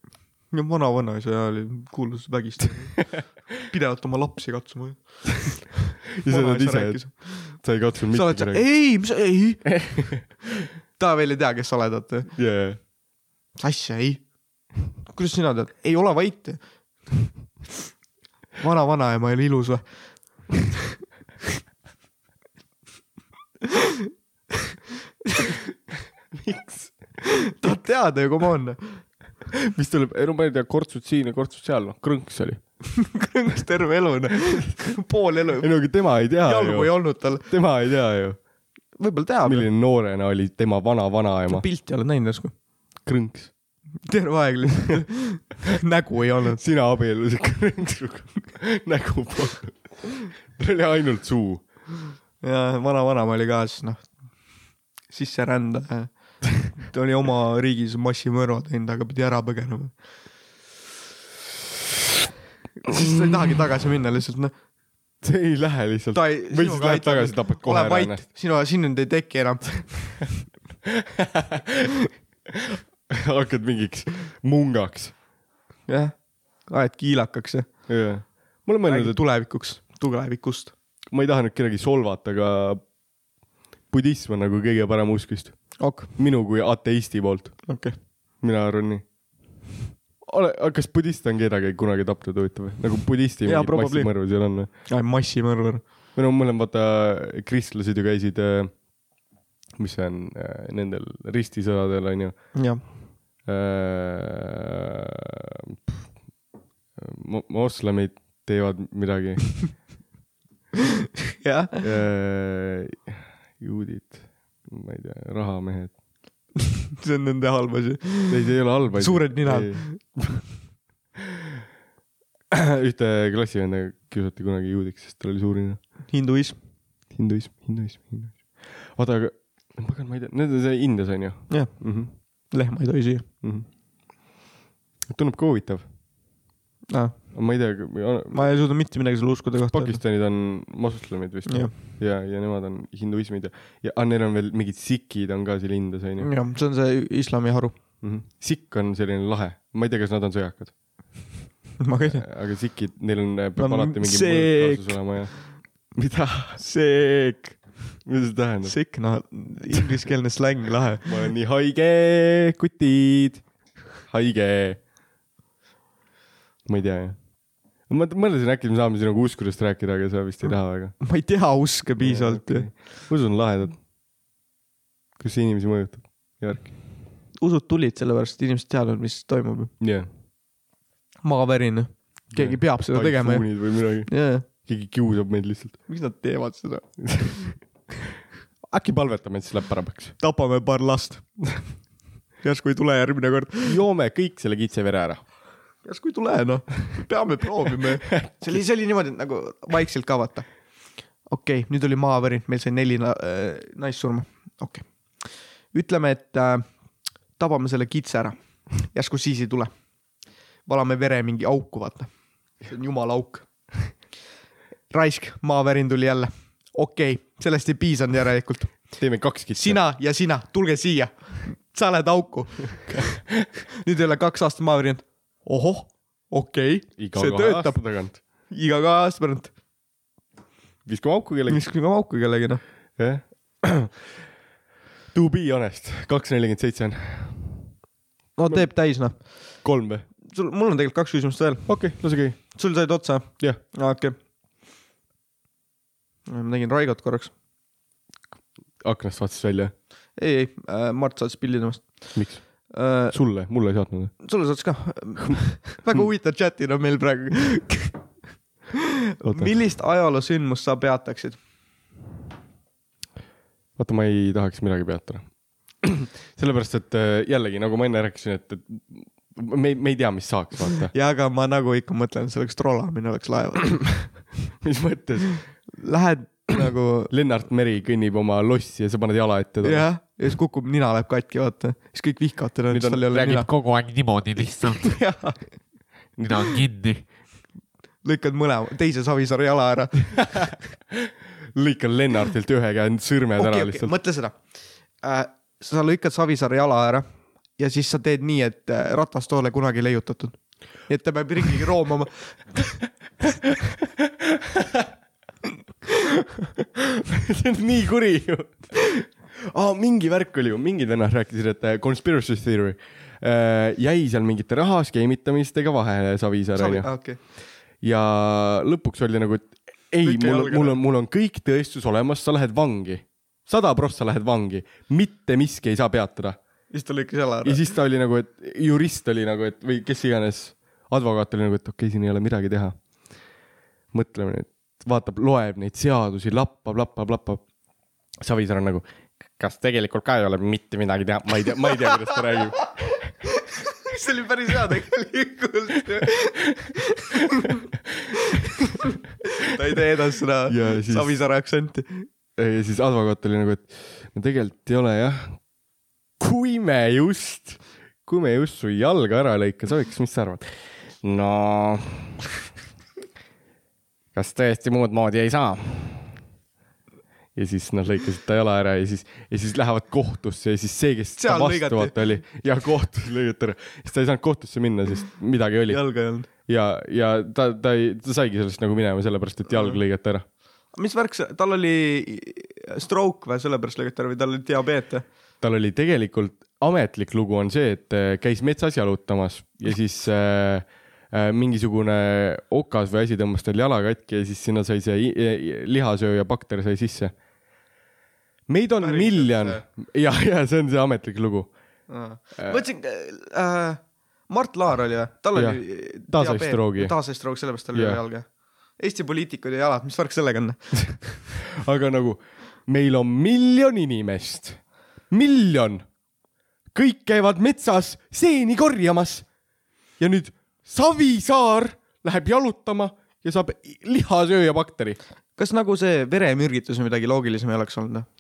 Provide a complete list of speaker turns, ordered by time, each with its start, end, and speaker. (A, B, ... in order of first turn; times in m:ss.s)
0:00.5-0:10.3 A
0:06.2-0:08.7 B
0:09.8-0:10.2 B
0:10.9-0:12.3 A
0:12.3-0:12.8 B
0:13.6-0:14.3 A
0:15.0-0:17.1 A
0:18.6-0:20.6 A
0:26.4-0:27.2 B
0:27.4-0:29.0 A
0:29.7-0:32.6 B
0:32.9-0:35.7 A
0:35.6-0:38.4 B
0:36.4-0:37.5 A
0:39.0-0:39.7 A
0:39.4-0:41.6 B
0:41.5-0:42.5 A
0:43.0-0:43.5 B
0:44.0-0:46.6 A
0:46.6-0:51.6 B
0:52.4-0:54.1 A
0:55.1-0:59.9 A
1:02.8-1:04.5 A
1:05.2-1:08.2 B
1:06.1-1:10.3 A
1:11.2-1:11.9 B
1:12.8-1:15.2 B
1:15.9-1:18.0 A
1:17.9-1:19.2 B
1:18.8-1:20.7 A
1:21.1-1:22.9 B
1:23.9-1:27.7 B
1:25.8-1:26.1 A
1:27.6-1:27.9 A
1:28.4-1:29.0 B
1:30.2-1:34.7 B
1:33.4-1:35.8 A
1:36.1-1:38.8 B
1:39.8-1:42.9 B
1:42.5-1:42.8 A
1:43.4-1:44.8 B
1:46.9-1:49.8 B
1:51.4-1:51.8 A
1:51.8-1:56.0 B
1:57.0-2:00.3 A
1:58.3-2:00.4 B
2:02.5-2:05.8 B
2:06.1-2:06.6 A
2:07.1-2:12.1 B
2:11.5-2:13.2 A
2:13.4-2:13.7 B
2:15.1-2:15.9 B
2:16.9-2:17.4 A
2:17.3-2:18.4 B
2:18.3-2:20.0 A
2:19.7-2:26.3 B
2:21.4-2:21.7 A
2:26.2-2:27.8 A
2:28.0-2:30.7 B
2:31.8-2:32.2 A
2:32.0-2:36.6 B
2:33.6-2:35.0 A
2:36.6-2:37.6 A
2:38.0-2:38.8 B
2:38.6-2:41.2 A
2:41.0-2:43.4 B
2:44.0-2:44.8 B
2:46.6-2:47.3 B
2:47.9-2:51.0 B
2:51.0-2:52.7 A
2:52.0-2:53.8 B
2:55.2-2:56.8 B
2:57.4-2:59.7 A
2:59.8-3:00.1 B
3:01.2-3:04.4 A
3:02.3-3:05.8 B
3:05.9-3:07.5 A
3:07.1-3:07.4 B
3:08.7-3:10.2 B
3:10.2-3:11.8 A
3:12.4-3:13.8 A
3:13.6-3:15.2 B
3:15.8-3:20.5 A
3:21.2-3:26.6 A
3:27.4-3:29.7 A
3:30.6-3:34.0 A
3:34.9-3:39.0 A
3:39.0-3:39.8 B
3:39.5-3:49.5 A
3:47.0-3:48.2 B
3:50.8-3:51.6 B
3:51.5-3:52.6 A
3:53.0-3:54.0 B
3:55.1-3:57.7 B
3:58.4-3:59.6 A
3:58.4-4:00.1 B
4:00.3-4:04.1 A
4:01.7-4:02.6 B
4:06.3-4:07.3 A
4:08.8-4:09.7 B
4:10.2-4:13.2 A
4:12.1-4:14.2 B
4:14.2-4:18.0 A
4:19.2-4:21.4 A
4:19.2-4:19.5 B
4:23.8-4:30.9 B
4:30.9-4:34.3 A
4:34.6-4:35.5 B
4:35.7-4:37.1 A
4:37.1-4:39.9 B
4:39.6-4:43.5 A
4:42.7-4:43.4 B
4:43.2-4:45.0 C
4:44.7-4:45.4 A
4:46.3-4:47.1 C
4:48.0-4:50.5 A
4:51.5-4:53.9 B
4:53.4-4:54.4 A
4:55.0-4:57.0 A
4:57.6-5:02.7 A
5:07.1-5:16.9 B
5:16.5-5:17.2 A
5:17.8-5:26.4 B
5:20.0-5:20.8 A
5:26.7-5:27.7 A
5:27.4-5:32.8 B
5:33.9-5:37.4 B
5:38.2-5:42.6 B
5:43.2-5:47.6 A
5:48.3-5:52.0 A
5:50.5-5:51.1 B
5:52.4-5:55.4 B
5:56.2-6:02.1 B
6:04.1-6:06.2 B
6:07.3-6:20.2 B
6:11.2-6:12.0 A
6:15.7-6:16.3 A
6:19.5-6:19.8 A
6:20.7-6:25.0 A
6:25.4-6:37.1 B
6:38.5-6:41.5 B
6:38.8-6:39.6 A
6:41.9-6:48.2 A
6:42.4-6:42.6 B
6:45.3-6:46.9 B
6:47.7-6:48.0 B
6:48.8-6:51.2 A
6:51.6-6:55.8 B
6:56.7-6:59.3 B
7:00.0-7:05.0 B
7:05.4-7:08.0 A